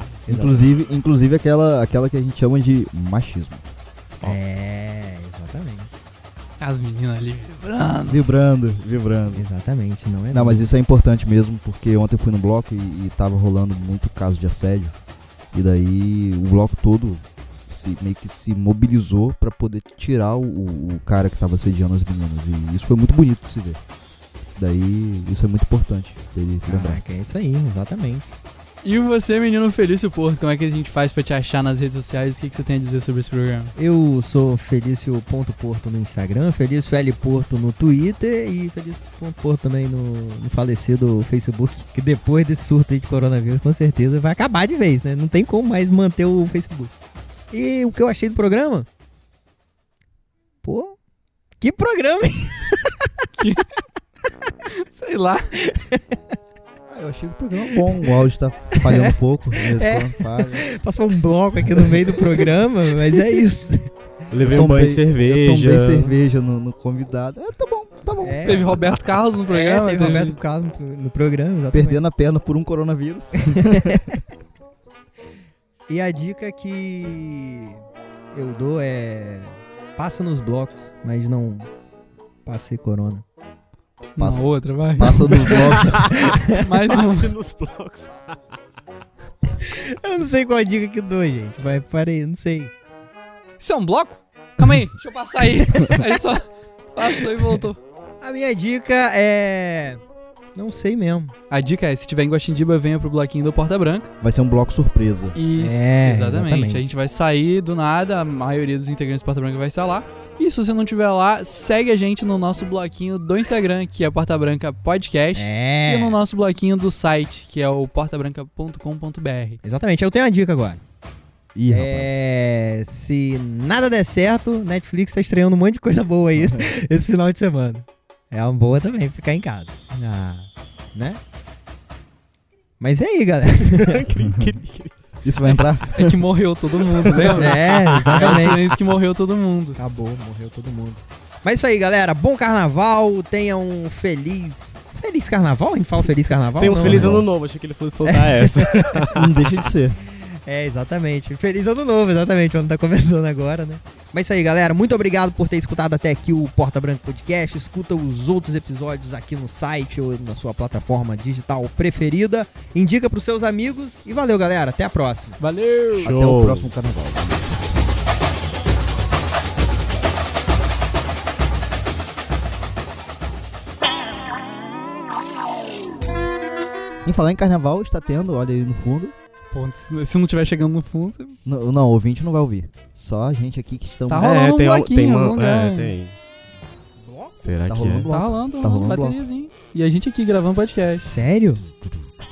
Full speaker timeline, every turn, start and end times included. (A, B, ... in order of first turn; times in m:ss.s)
0:00.3-0:00.7 A
0:00.3-0:03.6 B
0:04.2-0:05.9 A
0:06.6-0:08.2 C
0:08.1-0:09.4 B
0:09.3-0:10.6 A
0:10.3-0:15.0 B
0:15.5-0:23.8 B
0:24.6-0:27.0 B
0:26.7-0:28.3 A
0:28.8-0:33.7 C
0:33.8-0:46.9 A
0:47.5-0:48.9 A
0:50.6-0:51.0 A
0:51.6-0:53.1 A
0:53.4-0:53.6 C
0:54.6-0:55.5 C
0:55.6-0:56.2 A
0:56.9-1:00.7 B
0:57.7-0:58.1 A
0:58.8-1:03.9 A
1:04.3-1:06.2 D
1:04.5-1:08.8 B
1:08.2-1:08.8 A
1:08.4-1:10.4 C
1:09.5-1:12.0 A
1:11.7-1:14.2 B
1:13.5-1:14.0 A
1:15.9-1:17.8 A
1:18.3-1:21.7 A
1:22.4-1:23.2 A
1:24.2-1:25.9 C
1:24.2-1:26.1 B
1:25.5-1:28.3 D
1:26.2-1:26.6 A
1:26.6-1:27.3 C
1:29.6-1:32.7 A
1:33.6-1:37.8 C
1:38.2-1:40.0 A
1:40.5-1:41.3 A
1:41.5-1:44.1 C
1:44.2-1:45.4 B
1:45.3-1:59.6 C
1:45.5-1:46.8 A
1:55.3-1:56.2 A
1:59.6-2:00.8 A
2:01.5-2:02.1 B
2:01.7-2:11.2 A
2:06.4-2:06.7 B
2:12.8-2:14.0 A
2:13.6-2:14.9 D
2:14.2-2:14.6 B
2:15.2-2:16.2 B
2:15.9-2:19.8 C
2:17.0-2:18.7 D
2:17.3-2:18.6 A
2:19.8-2:27.2 A
2:26.6-2:29.3 D
2:26.8-2:27.2 B
2:28.0-2:29.2 A
2:29.1-2:30.0 B
2:30.1-2:45.4 A
2:45.4-2:46.1 C
2:46.0-2:46.7 D
2:46.0-2:47.7 B
2:57.0-2:59.1 B
2:59.5-3:01.4 C
3:01.4-3:04.4 B
3:04.1-3:05.9 C
3:04.1-3:06.2 D
3:07.0-3:07.4 A
3:07.4-3:08.1 D
3:07.7-3:09.2 B
3:08.1-3:11.0 C
3:11.0-3:11.6 A